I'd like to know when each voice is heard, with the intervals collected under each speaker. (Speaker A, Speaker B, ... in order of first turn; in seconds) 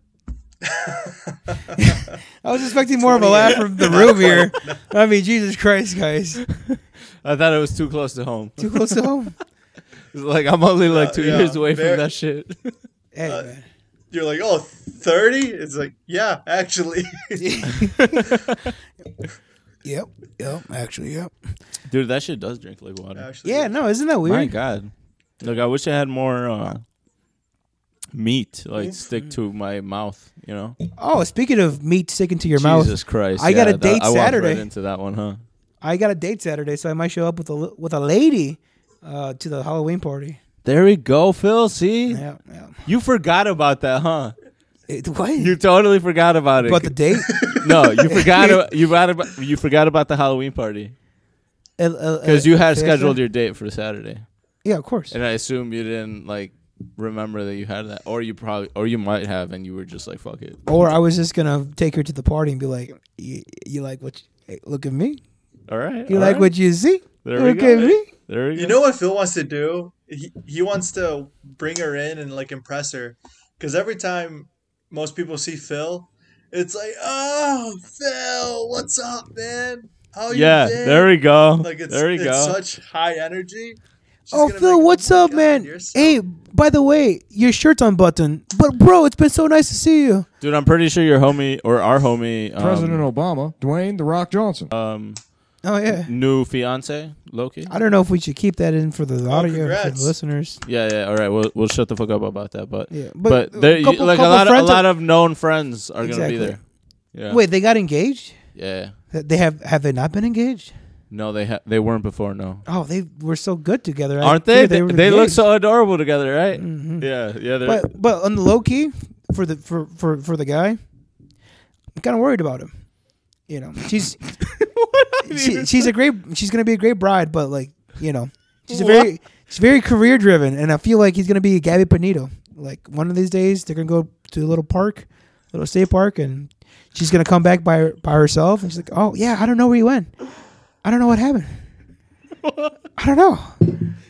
Speaker A: 0.6-2.1, 3.0-4.8, 10.9-12.1, 14.1-17.9, 23.1-23.8, 28.8-29.0, 47.3-47.7, 67.7-68.0, 68.5-86.2, 99.3-100.1
Speaker B: 1.8-6.4, 8.6-9.4, 13.1-13.6, 17.4-18.3, 19.8-21.3, 23.4-24.5, 31.0-34.7, 35.8-40.4, 42.1-42.8, 44.9-45.5, 46.6-48.6, 51.8-53.2, 54.6-55.1, 60.6-65.2, 66.1-68.1, 84.3-90.3, 95.6-96.1, 97.7-100.6, 102.9-104.9, 106.0-106.6, 107.3-108.4, 109.1-110.7, 112.7-115.4, 116.5-117.1, 117.6-120.8, 122.0-122.7, 123.5-124.3, 125.2-140.1, 140.8-141.7, 143.0-143.9
Speaker C: 6.6-9.0, 10.1-12.7, 18.0-18.6, 21.9-23.3, 24.2-26.8, 28.1-30.8, 32.6-35.4, 40.6-42.2, 42.9-44.3, 45.4-47.0, 47.6-50.9, 52.2-54.2, 55.1-60.6, 65.7-66.5, 67.2-68.8, 80.3-82.6, 90.4-93.0, 94.7-95.2, 95.9-97.7, 100.6-106.6, 107.1-107.4, 108.5-108.9, 111.1-112.6, 114.2-117.9, 124.4-125.9, 128.7-129.1, 142.4-142.7
Speaker D: 92.6-94.7